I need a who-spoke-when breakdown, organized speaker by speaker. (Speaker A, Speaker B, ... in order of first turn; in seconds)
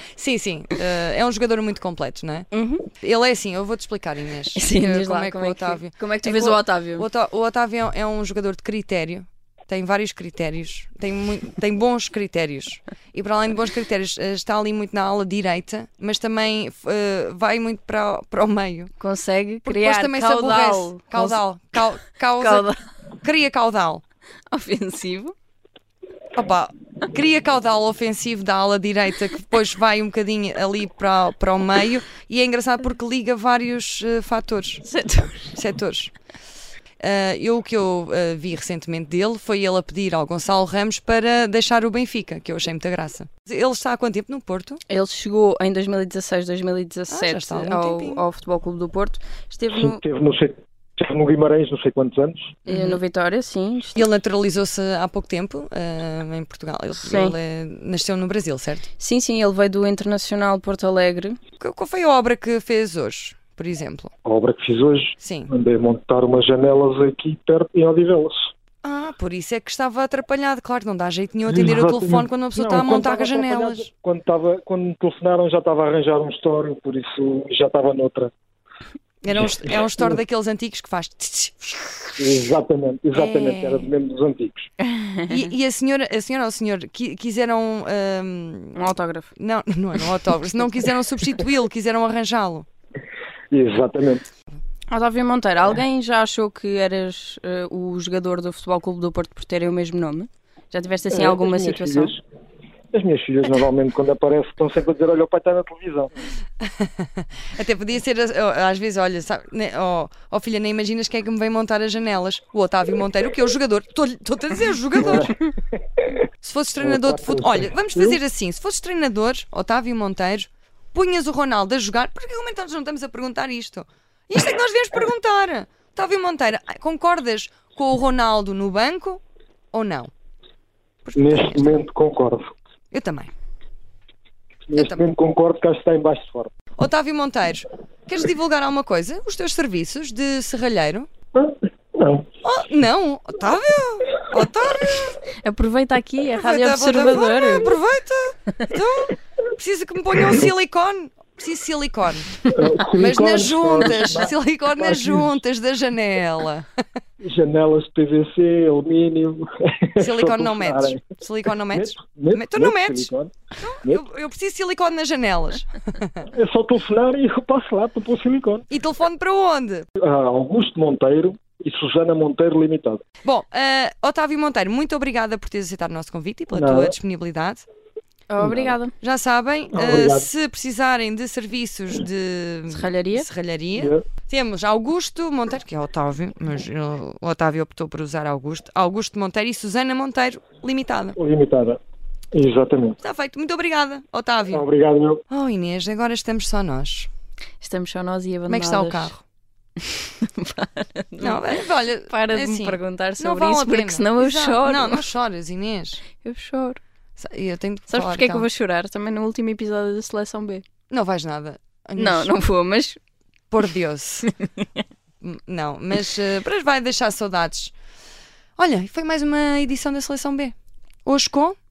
Speaker A: 0.2-2.5, 3.0-18.9, 19.7-22.7, 23.2-24.0, 26.3-34.8, 35.5-36.1, 37.0-44.8, 47.1-48.2, 52.7-53.0, 54.0-58.9, 61.6-64.1, 65.2-65.5, 68.8-73.9, 79.2-82.4, 83.1-83.9, 85.3-88.8, 89.4-92.7, 106.8-115.4, 116.4-129.2, 129.7-130.1, 131.1-131.8, 132.9-133.3, 134.8-135.1, 136.8-141.1, 142.4-145.2, 146.4-156.7, 160.0-166.3, 168.7-169.9, 173.2-177.7, 179.0-191.2, 193.0-194.6, 195.3-197.1, 198.5-199.2, 201.2-206.0, 207.2-208.5, 210.9-212.3, 213.5-214.3, 215.2-217.7, 218.6-220.5, 221.1-221.6
Speaker B: 2.5-2.9, 4.5-7.1, 19.0-21.4, 22.4-22.8, 24.5-25.4, 34.8-35.5, 44.9-50.0, 52.7-54.0, 57.0-57.4, 59.0-61.4, 84.8-85.4, 88.8-89.3, 94.9-102.2, 145.4-147.8, 178.3-178.9, 182.7-183.3, 197.6-199.2, 199.8-201.4, 202.1-205.1, 206.2-206.8, 207.9-210.7, 212.0-213.0
Speaker C: 49.7-52.5, 64.2-68.5, 71.5-78.3, 82.2-84.7, 93.5-94.3, 101.1-102.2, 102.9-106.1, 115.0-115.3, 116.8-118.2, 131.2-132.6, 134.7-136.6, 141.4-142.3, 152.5-155.3, 157.2-161.0, 161.7-163.3, 166.3-168.7, 170.0-173.0, 176.5-176.9, 178.4-178.7, 179.7-180.3, 183.8-184.0, 191.2-191.8, 192.3-193.0, 194.5-195.2